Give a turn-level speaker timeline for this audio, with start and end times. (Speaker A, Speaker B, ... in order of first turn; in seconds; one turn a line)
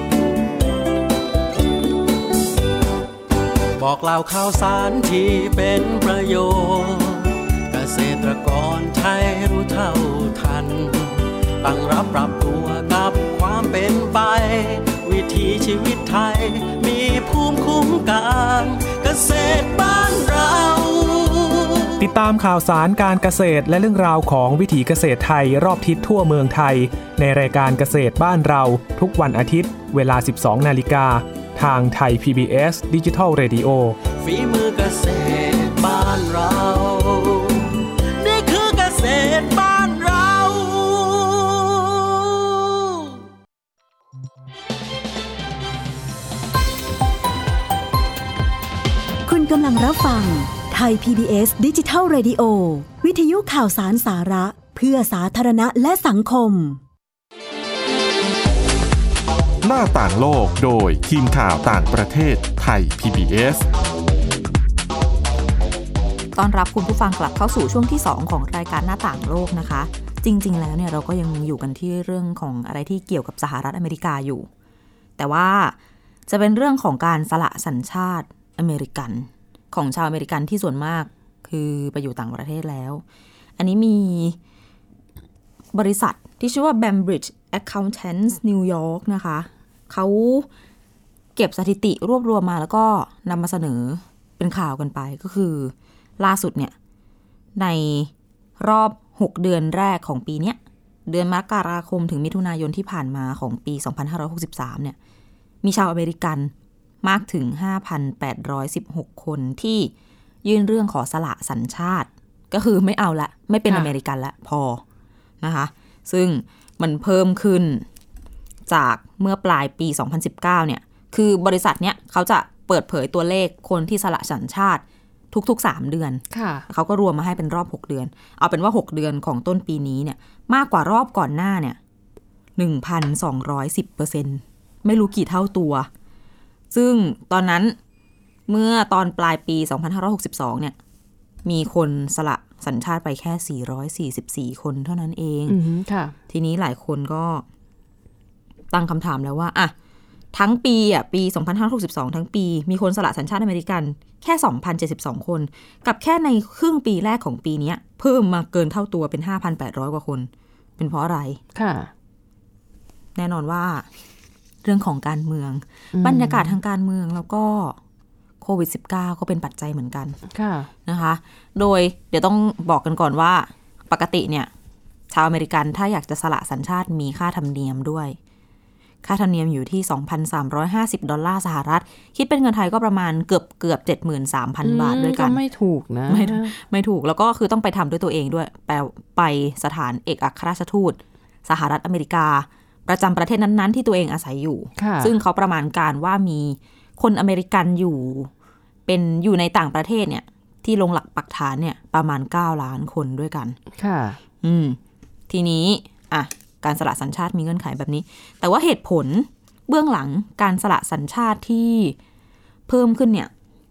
Speaker A: 3.8-22.0
Speaker B: 22.0-34.0
Speaker A: 34.1-43.0
Speaker C: 49.2-56.8
Speaker D: 59.6-63.6
Speaker E: 66.3-74.5
Speaker E: 75.2-83.0
Speaker E: 83.6-84.4
Speaker E: 85.7-90.5
Speaker E: 91.4-96.8
Speaker E: 97.6-105.0
Speaker E: 105.6-109.9
Speaker E: 110.4-114.8
Speaker F: 113.7-113.9
Speaker E: 115.4-117.8
Speaker E: 118.7-131.8
Speaker F: 126.3-126.7
Speaker E: 132.6-135.9
Speaker E: 136.7-137.8
Speaker E: 138.5-140.8
Speaker E: 141.4-145.6
Speaker F: 145.5-146.2
Speaker E: 146.3-147.4
Speaker E: 148.7-149.7
Speaker E: 150.3-161.4
Speaker F: 161.5-161.9
Speaker E: 163.1-163.9
Speaker E: 164.6-167.8
Speaker F: 165.9-166.5
Speaker E: 168.4-170.2
Speaker F: 170.3-170.7
Speaker E: 170.9-174.5
Speaker E: 175.1-178.2
Speaker E: 179.0-185.4
Speaker F: 184.6-186.5
Speaker E: 186.1-198.3
Speaker F: 194.8-195.1
Speaker E: 198.9-203.6
Speaker F: 203.8-204.2
Speaker E: 204.4-204.8
Speaker E: 205.3-212.0
Speaker E: 212.7-213.3